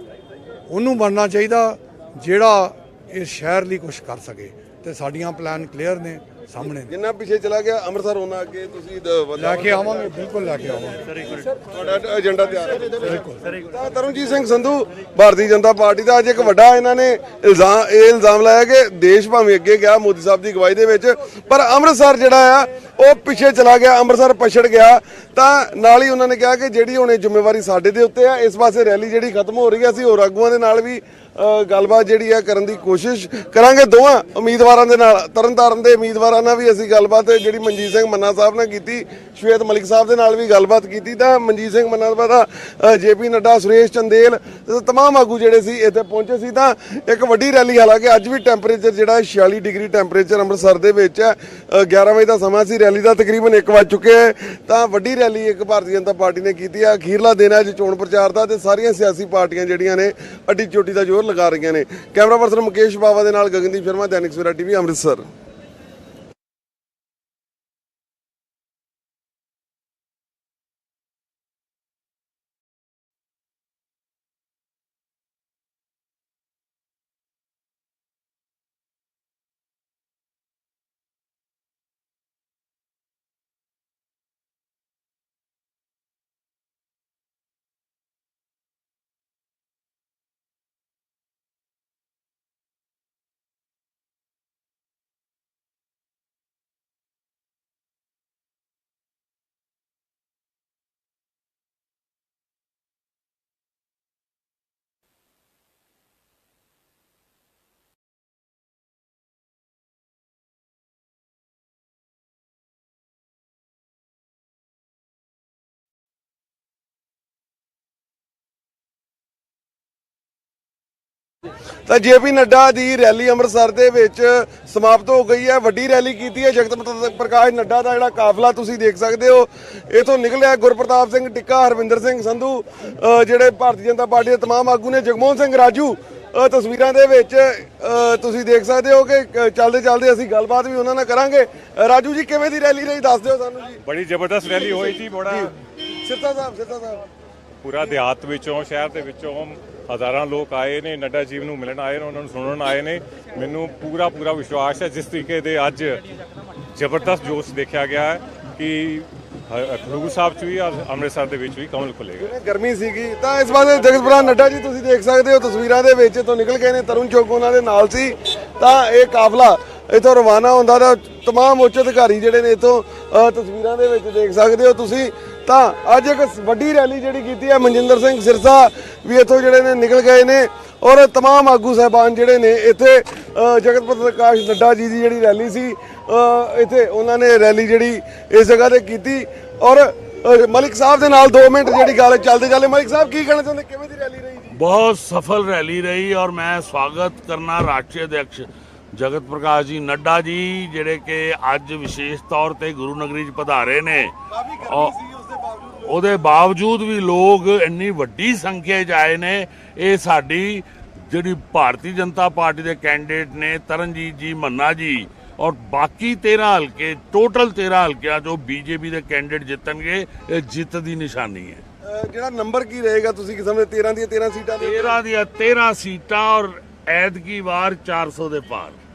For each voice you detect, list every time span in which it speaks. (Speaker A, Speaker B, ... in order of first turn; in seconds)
Speaker A: 0.7-6.9, 9.4-11.1, 13.0-13.4
Speaker B: 6.9-9.8, 11.6-65.2, 121.9-143.8, 144.4-147.1, 162.2-194.6, 204.4-205.9, 221.8-225.0
Speaker C: 143.8-145.5, 147.6-156.0, 156.8-162.3
Speaker D: 194.5-204.9, 205.8-221.6, 224.6-228.8